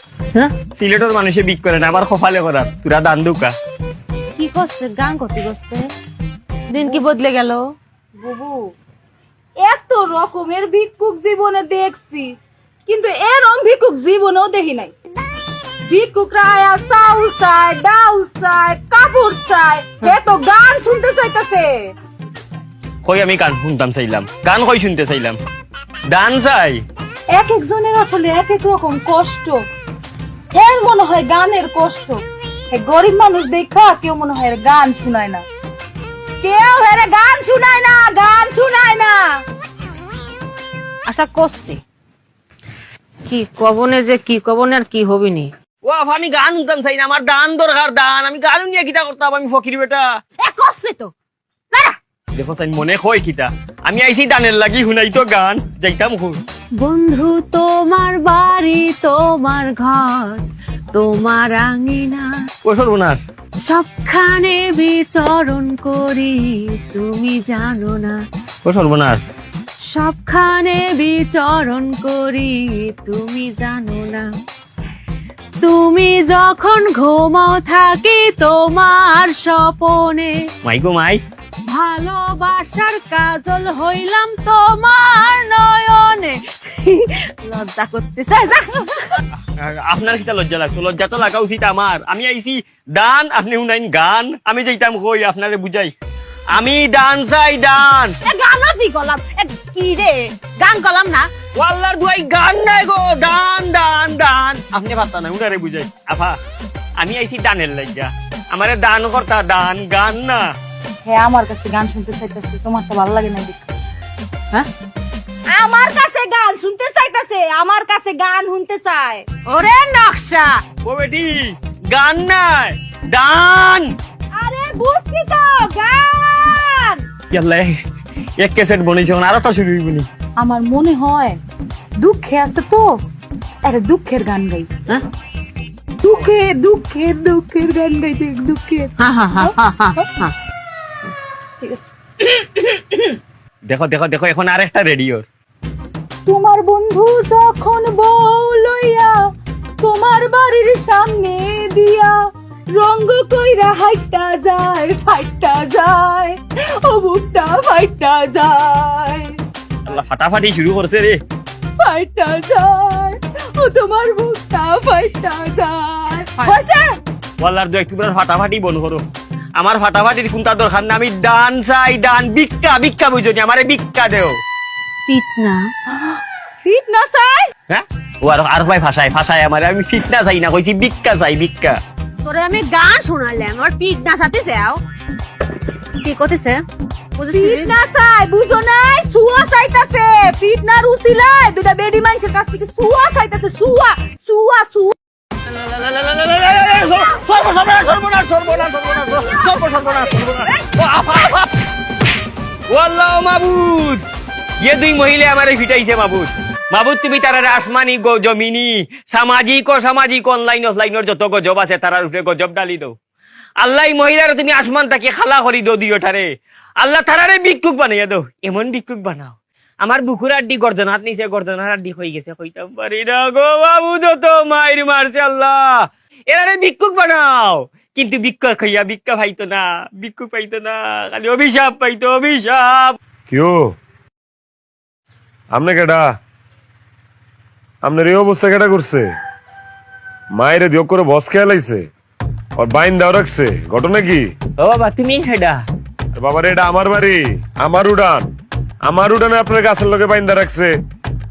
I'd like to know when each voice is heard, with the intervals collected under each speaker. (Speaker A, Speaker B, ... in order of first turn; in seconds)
Speaker A: 0.7-3.5, 23.0-25.4, 26.1-26.8, 45.8-50.1, 52.3-56.4, 62.6-63.2, 68.6-69.2, 80.6-81.2, 89.5-95.9, 96.5-98.2, 101.6-106.4, 107.0-110.5, 120.8-123.9, 127.3-127.8, 128.4-130.1, 143.7-145.2, 159.8-161.2, 167.4-169.0, 169.6-174.4, 177.7-181.8, 195.4-201.5, 202.7-204.0, 204.6-212.9, 213.6-216.2, 216.8-233.0, 244.6-245.6
Speaker B: 4.3-5.9, 6.7-7.6, 41.1-41.8, 43.3-45.5, 50.4-51.1, 56.8-62.3, 63.6-68.2, 69.9-74.3, 75.6-80.3, 81.7-89.2, 98.2-101.3, 119.5-120.6, 139.0-140.3, 175.1-175.7, 182.2-184.8, 186.0-186.6, 187.2-187.7
Speaker C: 8.2-8.6, 9.6-12.3, 12.8-14.9, 15.9-21.7, 27.3-29.6, 30.5-32.2, 32.7-35.4, 36.4-39.4, 111.0-113.7, 115.5-119.2, 124.4-127.0, 130.4-131.4, 132.0-133.0, 133.6-134.7, 136.0-140.1, 141.6-143.2, 146.2-149.1, 149.8-152.1, 152.8-159.4, 161.8-167.0, 175.9-177.5, 187.3-194.9, 198.6-200.0
Speaker D: 233.3-233.7, 235.5-236.1, 237.8-239.1, 240.3-241.8, 242.6-244.3, 246.2-248.3, 248.8-250.8